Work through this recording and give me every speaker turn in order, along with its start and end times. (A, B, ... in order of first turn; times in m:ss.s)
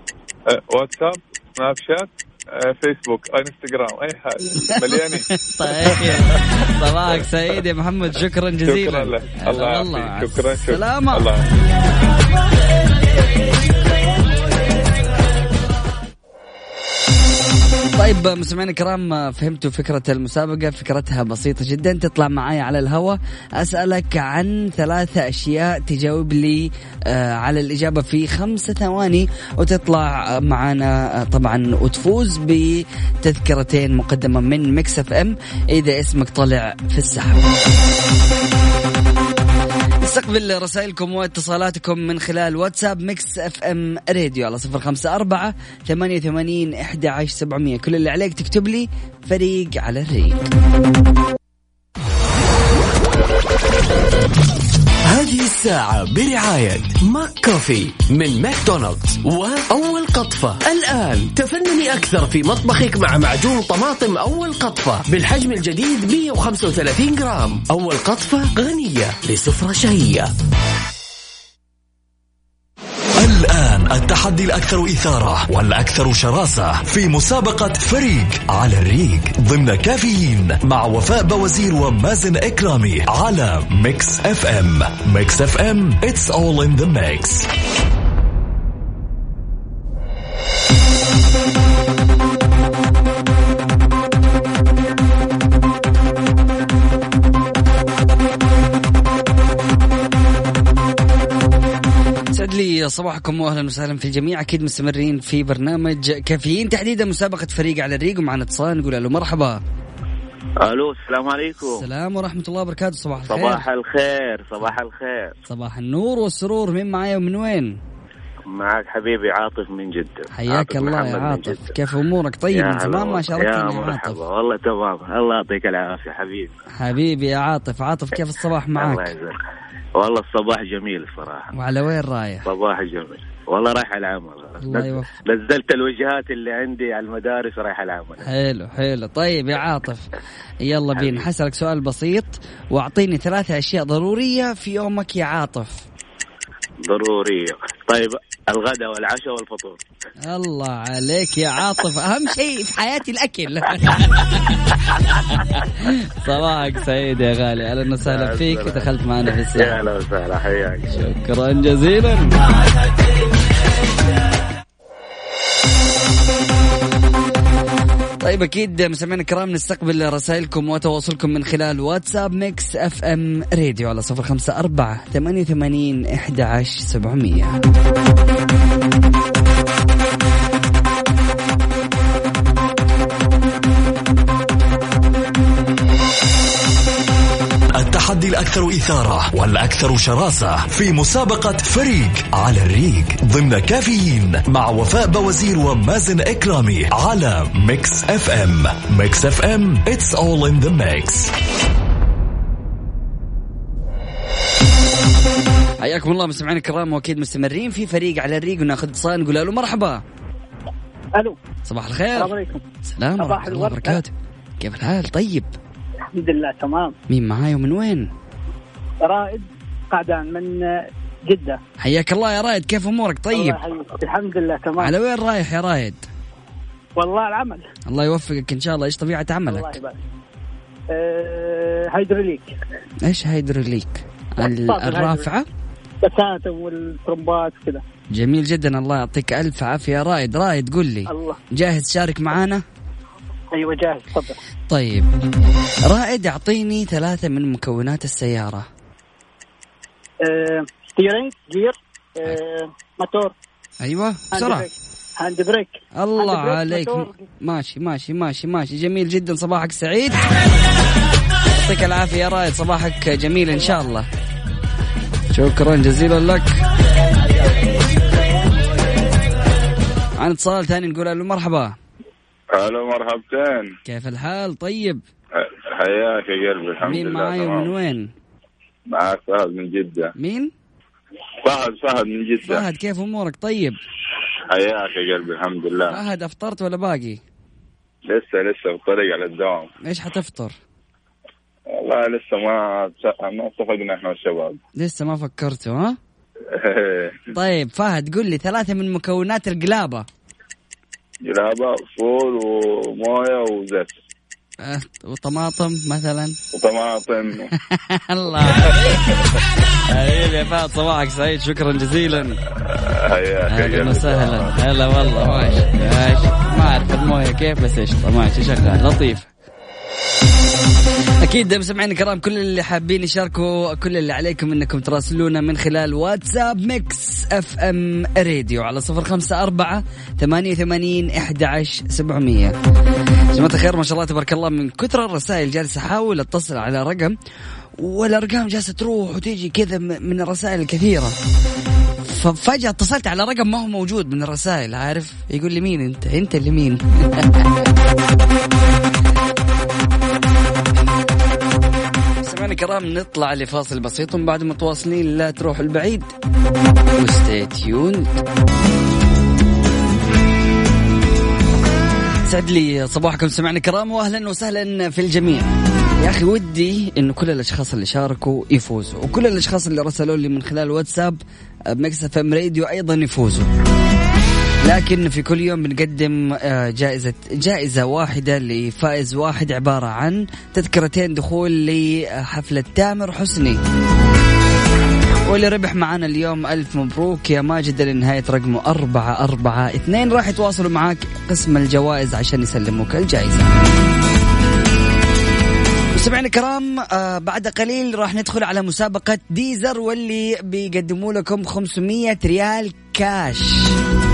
0:00.5-0:06.4 A
0:04.5-0:11.3 B
0:08.7-0:11.5 A
0:17.9-0:37.5 B
0:40.0-0:50.5 B
0:55.1-1:10.3 C
1:13.2-1:27.5 D
1:42.3-1:49.6 B
1:50.6-1:51.8 E
1:51.6-1:53.6 B
1:53.2-1:55.3 E
1:55.5-1:57.8 B
1:58.5-2:01.8 E
2:00.3-2:04.2 B
2:02.5-2:06.5 E
2:06.8-2:09.1 B
2:08.7-2:09.4 E
2:10.0-2:11.5 E
2:11.5-2:12.4 B
2:12.4-2:18.3 E
2:14.6-2:15.1 B
2:18.2-2:20.1 B
2:20.6-2:25.8 B
2:21.0-2:21.3 E
2:26.9-2:29.8 E
2:30.2-2:39.8 B
2:38.0-2:38.9 E
2:39.5-2:41.0 E
2:40.9-2:42.3 B
2:48.2-2:57.6 B
3:07.7-3:21.3 D
3:25.8-3:30.0 B
3:31.6-3:32.3 B
3:32.1-3:32.6 F
3:32.9-3:35.5 B
3:33.2-3:34.0 F
3:36.1-3:36.9 F
3:37.1-3:38.1 B
3:39.0-3:41.6 F
3:41.8-3:43.6 B
3:43.3-3:44.9 F
3:44.8-3:46.0 B
3:47.0-3:47.6 F
3:47.9-3:49.8 B
3:49.5-3:50.0 F
3:50.9-3:52.5 F
3:53.0-3:55.4 B
3:54.4-3:55.3 F
3:56.0-3:57.8 F
3:58.1-4:02.6 B
4:01.1-4:01.4 F
4:03.5-4:04.4 F
4:04.7-4:05.1 B
4:05.9-4:08.7 B
4:10.2-4:13.3 F
4:13.8-4:14.7 B
4:14.3-4:17.2 F
4:16.0-4:20.2 B
4:21.5-4:24.0 B
4:25.3-4:26.6 B
4:30.2-4:31.8 B
4:32.5-4:33.7 G
4:33.8-4:35.0 B
4:35.4-4:37.7 G
4:36.8-4:38.1 B
4:38.9-4:40.1 G
4:40.2-4:40.5 B
4:41.4-4:42.6 G
4:42.4-4:43.8 B
4:44.5-4:46.0 G
4:45.9-4:47.2 B
4:48.1-4:49.7 G
4:49.8-4:50.6 B
4:51.7-4:54.6 G
4:54.8-4:56.0 B
4:56.5-4:57.2 G
4:57.3-5:00.0 B
5:01.2-5:03.9 G
5:04.6-5:06.4 B
5:06.5-5:07.5 G
5:07.6-5:09.0 B
5:09.9-5:12.4 B
5:12.7-5:14.5 G
5:13.5-5:19.3 B
5:21.2-5:32.5 B
5:33.3-5:37.1 B
5:37.8-5:41.1 B
5:42.0-5:47.5 B
5:52.2-5:56.1 B
5:57.0-5:58.2 B
6:02.2-6:11.2 B
6:11.7-6:13.5 B
6:14.6-6:23.6 B
6:25.3-6:33.5 B
6:35.9-6:43.8 B